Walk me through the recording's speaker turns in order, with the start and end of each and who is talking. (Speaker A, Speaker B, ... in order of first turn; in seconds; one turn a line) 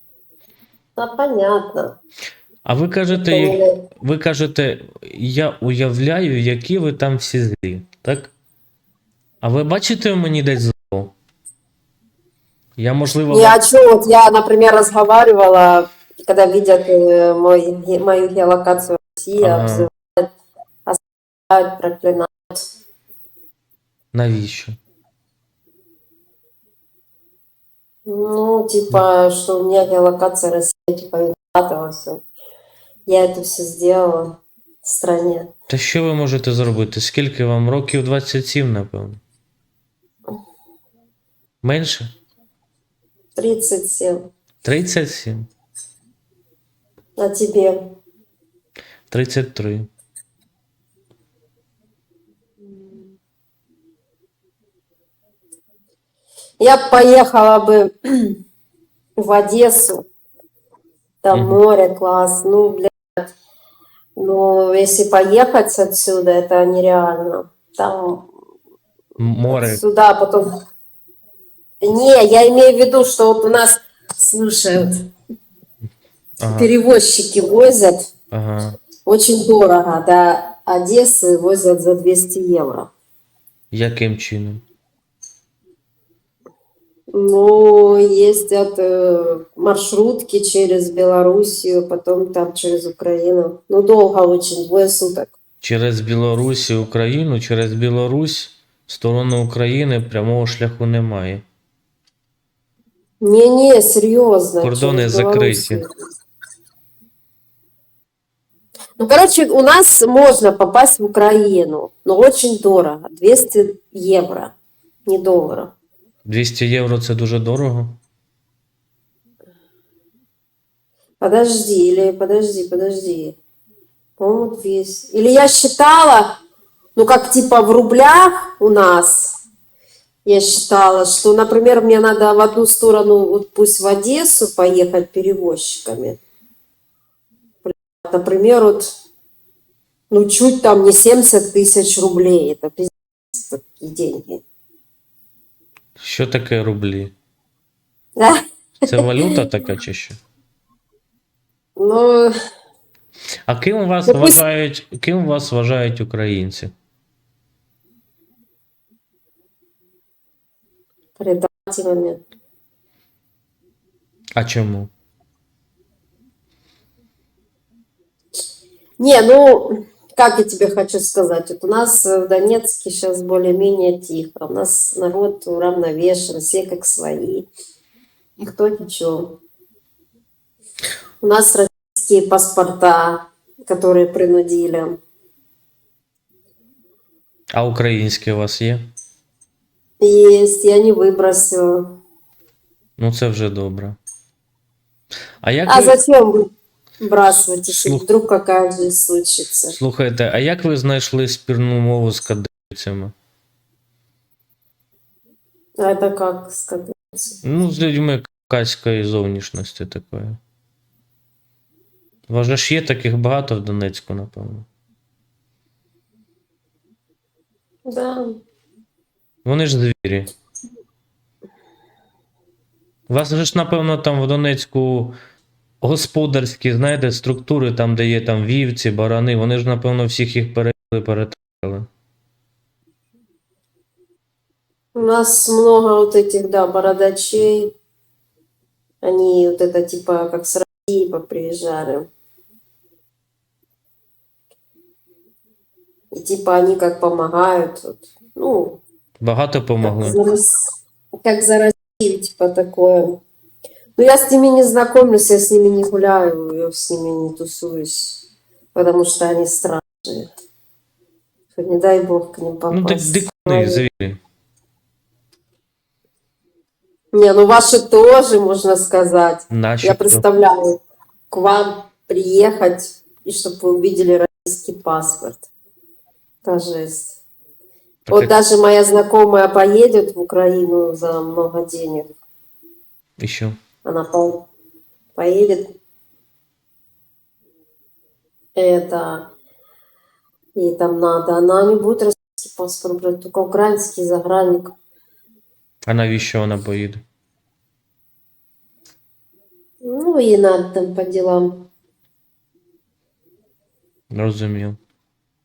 Speaker A: 1.0-2.0
Speaker B: 2.6-8.3
Speaker A: 3.1-3.9
Speaker B: 9.4-11.1
Speaker B: 12.8-13.6
Speaker A: 13.3-20.3
Speaker B: 19.4-19.9
Speaker A: 20.9-22.7
Speaker B: 24.1-24.8
Speaker A: 28.1-32.2
Speaker A: 33.1-35.5
Speaker B: 35.7-39.2
Speaker B: 41.6-42.1
Speaker A: 43.4-44.3
Speaker B: 44.6-45.5
Speaker A: 47.2-48.0
Speaker B: 49.1-49.9
Speaker A: 52.7-53.1
Speaker A: 56.6-58.4
Speaker A: 59.2-60.0
Speaker A: 61.2-63.3
Speaker B: 61.3-61.6
Speaker A: 64.2-68.3
Speaker B: 69.2-69.8
Speaker A: 69.5-70.5
Speaker A: 71.8-75.1
Speaker B: 76.4-76.7
Speaker A: 76.5-78.1
Speaker B: 78.3-78.8
Speaker A: 79.0-82.9
Speaker B: 83.7-84.6
Speaker A: 87.1-95.3
Speaker B: 95.6-101.4
Speaker A: 103.2-105.9
Speaker B: 104.6-105.8
Speaker A: 109.0-114.5
Speaker A: 115.0-115.7
Speaker B: 116.2-118.0
Speaker A: 121.2-123.3
Speaker A: 124.2-126.4
Speaker A: 127.0-129.4
Speaker A: 130.2-136.2
Speaker A: 137.6-138.9
Speaker A: 140.1-144.4
Speaker B: 146.0-147.1
Speaker A: 148.2-149.3
Speaker B: 148.8-150.2
Speaker A: 151.8-152.3
Speaker B: 153.5-156.7
Speaker A: 154.1-154.4
Speaker A: 161.2-162.2
Speaker B: 164.3-164.9
Speaker A: 169.0-177.5
Speaker A: 178.4-179.4
Speaker A: 181.2-185.0
Speaker B: 187.5-188.9
Speaker A: 190.0-192.0
Speaker B: 193.0-194.0
Speaker B: 195.4-196.0
Speaker A: 195.7-199.8
Speaker B: 197.7-198.0
Speaker B: 199.7-203.1
Speaker A: 205.8-207.4
Speaker B: 207.4-210.4
Speaker B: 212.3-214.7
Speaker A: 217.8-218.4
Speaker B: 219.4-220.3
Speaker B: 223.1-225.2
Speaker B: 225.8-231.9
Speaker A: 234.9-237.7
Speaker A: 239.0-242.1
Speaker A: 246.1-248.8
Speaker B: 249.2-250.2
Speaker A: 249.8-253.2
Speaker A: 254.0-258.2
Speaker A: 258.7-260.3
Speaker A: 261.6-263.8
Speaker B: 262.7-264.2
Speaker A: 267.1-270.8
Speaker B: 269.5-270.2
Speaker A: 271.3-275.5
Speaker A: 276.4-277.2
Speaker B: 278.1-278.3
Speaker A: 278.1-282.1
Speaker B: 283.2-283.6
Speaker A: 283.8-284.5
Speaker A: 285.1-285.7
Speaker A: 288.6-289.3
Speaker A: 290.6-294.7
Speaker B: 295.8-297.0
Speaker A: 299.8-301.7
Speaker B: 304.1-304.8